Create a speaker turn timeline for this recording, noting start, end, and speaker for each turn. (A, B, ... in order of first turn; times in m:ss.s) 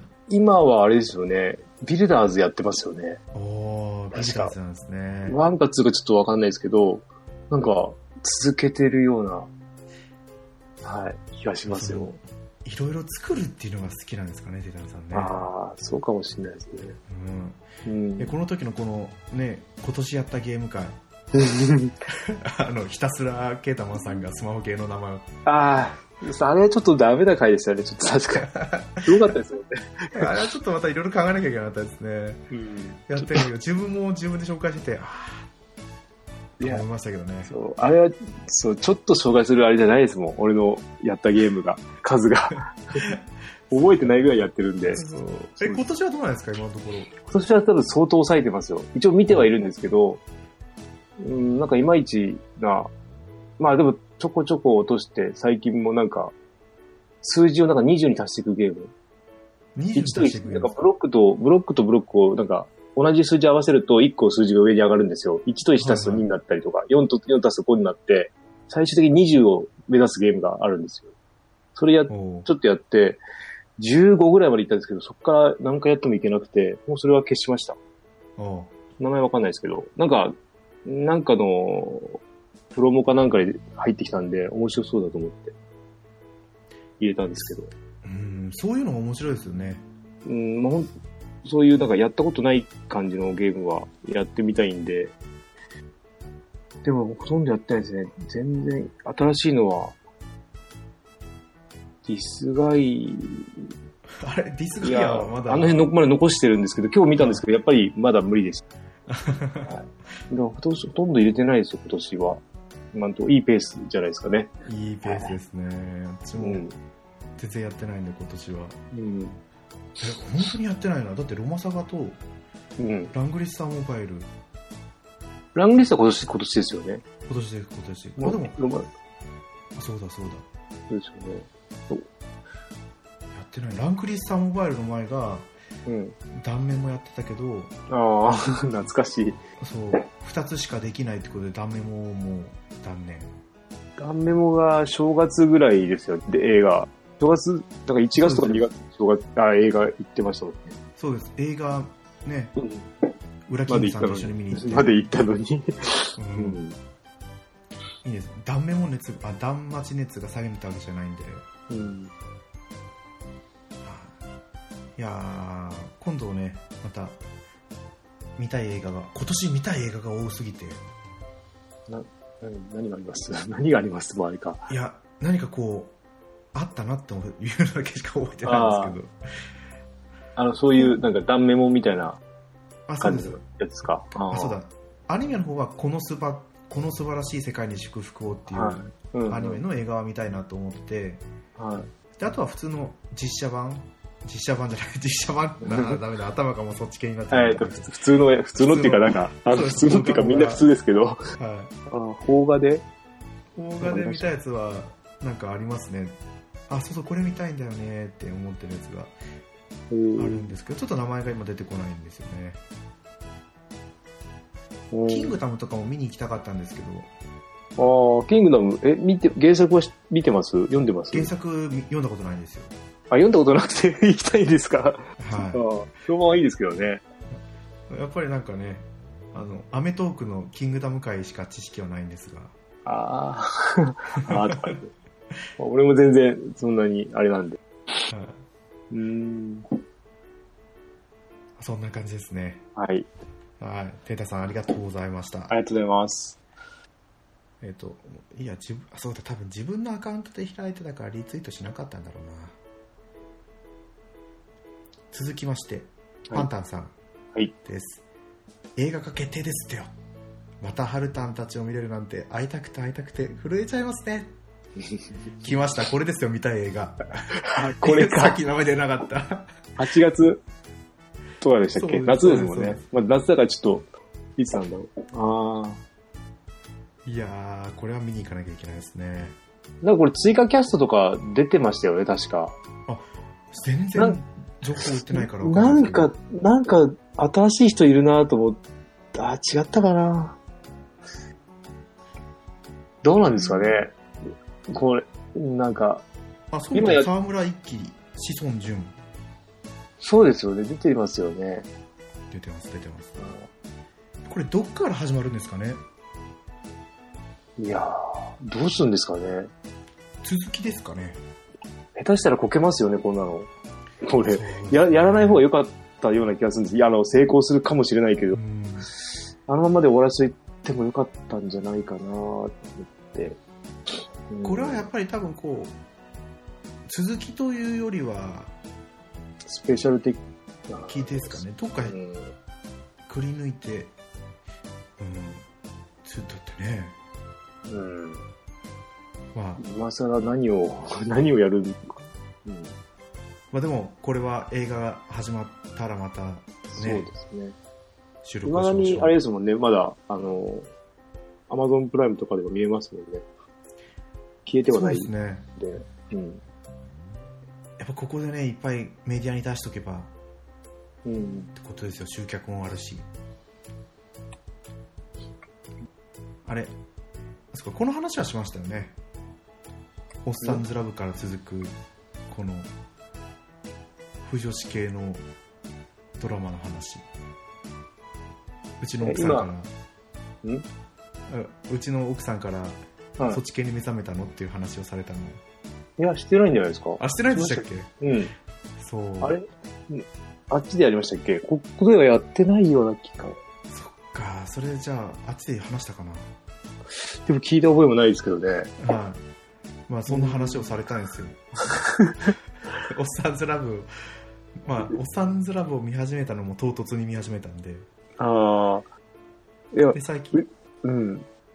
0:00.3-0:03.2 A
0:03.3-0:05.4 B
0:04.1-0:04.6 A
0:05.3-0:09.5 A
0:10.8-0:12.2 A
0:11.7-0:15.4 B
0:15.1-0:17.0 A
0:17.1-0:17.7 B
0:17.8-0:18.3 A
0:18.2-0:21.0 B
0:21.3-0:22.0 A
0:22.2-0:25.3 B
0:25.4-0:28.5 A
0:28.5-0:29.1 B
0:29.0-0:30.3 A
0:30.1-0:32.4 B
0:32.5-0:33.4 A
0:33.1-0:35.5 B
0:36.6-0:36.8 A
0:36.6-0:37.6 B
0:37.5-0:43.1 A
0:43.7-0:44.2 B
0:43.7-0:45.1 A
0:44.9-0:47.1 B
0:47.2-0:50.2 A
0:51.2-0:52.9 A
0:53.6-0:56.3 A
0:57.2-0:58.9 A
0:59.8-1:00.8 B
1:00.0-1:11.1 A
1:05.8-1:06.3 B
1:11.8-1:13.2 A
1:12.1-1:12.5 B
1:13.8-1:17.8 A
1:18.4-1:18.7 B
1:19.0-1:22.2 A
1:22.7-1:25.6 A
1:27.0-1:27.7 A
1:28.0-1:29.8 B
1:30.2-1:30.9 A
1:31.4-1:35.2 A
1:36.8-1:40.0 A
1:42.0-1:43.7 A
1:44.2-1:45.9 B
1:44.8-1:48.6 A
1:47.2-1:47.4 B
1:49.1-1:49.8 B
1:49.7-1:52.4 A
1:52.9-1:54.5 A
1:54.7-1:56.6 B
1:55.1-1:55.3 A
1:56.4-1:56.8 A
1:57.4-1:58.8 B
1:58.9-1:59.4 A
2:00.0-2:02.2 B
2:02.8-2:03.1 A
2:03.1-2:04.3 B
2:05.6-2:07.0 A
2:07.3-2:08.6 B
2:08.2-2:08.9 A
2:09.8-2:10.5 B
2:10.9-2:12.1 A
2:13.3-2:15.5 B
2:15.9-2:16.2 A
2:16.3-2:17.7 B
2:17.9-2:19.4 A
2:19.6-2:23.3 B
2:24.0-2:30.7 A
2:28.2-2:28.7 B
2:31.0-2:32.6 B
2:32.6-2:33.1 A
2:33.5-2:35.0 B
2:33.7-2:36.8 A
2:36.2-2:36.6 B
2:38.0-2:41.4 B
2:41.7-2:42.1 A
2:43.8-2:44.2 B
2:45.0-2:47.2 B
2:48.4-2:50.8 B
2:51.9-2:54.7 A
2:54.7-2:55.9 B
2:56.5-2:59.1 B
2:58.4-2:59.0 A
3:00.4-3:02.2 A
3:02.9-3:03.4 B
3:03.0-3:04.6 A
3:04.3-3:11.2 B
3:08.5-3:09.6 A
3:11.6-3:11.9 A
3:12.2-3:17.9 B
3:15.6-3:16.0 A
3:17.3-3:21.2 A
3:18.6-3:20.7 B
3:21.4-3:21.7 B
3:21.9-3:22.9 A
3:23.6-3:26.2 B
3:23.8-3:24.3 A
3:26.7-3:29.1 B
3:29.9-3:30.5 A
3:30.2-3:32.6 B
3:34.9-3:35.4 A
3:35.1-3:37.1 B
3:37.8-3:41.3 A
3:41.1-3:42.7 B
3:43.1-3:47.0 A
3:45.2-3:45.6 B
3:47.9-3:52.5 B
3:52.8-3:54.9 A
3:54.2-3:54.7 B
3:55.6-3:57.6 A
3:58.1-3:58.4 B
3:58.9-3:59.7 A
4:01.6-4:02.6 B
4:02.8-4:03.1 A
4:03.6-4:05.6 B
4:05.5-4:06.4 A
4:07.6-4:12.6 B
4:15.1-4:16.9 B
4:17.6-4:18.0 B
4:18.8-4:19.9 B
4:20.6-4:24.3 B
4:25.4-4:29.6 B
4:27.4-4:28.4 A
4:29.8-4:30.4 A
4:31.4-4:35.8 A
4:31.8-4:32.8 B
4:37.1-4:39.4 B
4:39.8-4:42.6 A
4:42.9-4:46.1 B
4:44.8-4:48.6 A
4:49.1-4:50.4 A
4:53.0-4:54.0 A
4:53.2-4:53.8 B
4:54.7-4:56.0 A
4:56.5-4:59.0 B
4:56.7-4:57.1 A
5:00.0-5:01.7 A
5:02.3-5:03.2 B
5:04.3-5:05.8 B
5:07.6-5:09.5 A
5:10.2-5:11.2 B
5:12.0-5:13.5 A
5:14.0-5:18.4 A
5:14.3-5:15.4 B
5:18.3-5:18.9 B
5:19.5-5:23.4 A
5:24.3-5:24.9 A
5:24.4-5:25.7 B
5:26.9-5:28.5 B
5:29.5-5:32.3 A
5:30.9-5:32.0 B
5:33.1-5:33.9 B
5:35.0-5:35.4 B
5:36.0-5:37.0 B
5:37.7-5:38.3 A
5:39.3-5:39.6 B
5:39.6-5:42.8 A
5:43.5-5:47.1 B
5:46.7-5:47.6 A
5:48.2-5:49.2 B
5:48.4-5:50.7 A
5:51.5-5:53.3 A
5:54.5-5:56.4 A
5:54.7-5:55.5 B
5:57.8-6:00.1 B
6:01.0-6:01.5 A
6:01.6-6:03.1 B
6:06.5-6:06.7 B
6:07.5-6:09.0 B
6:10.2-6:11.8 B
6:12.3-6:12.7 B
6:14.2-6:15.2 B
6:16.2-6:17.1 B
6:18.8-6:19.7 B
6:19.0-6:19.5 A
6:21.3-6:25.4 B
6:26.0-6:28.3 A
6:27.0-6:27.9 B
6:28.8-6:29.4 B
6:29.2-6:33.4 A
6:33.7-6:36.3 B
6:37.0-6:38.7 A
6:38.8-6:39.2 B
6:39.9-6:41.4 B
6:40.1-6:40.7 A
6:41.6-6:42.3 A
6:42.9-6:43.9 B
6:44.6-6:47.9 B
6:48.2-6:48.9 A
6:49.7-6:51.3 A
6:49.9-6:50.4 B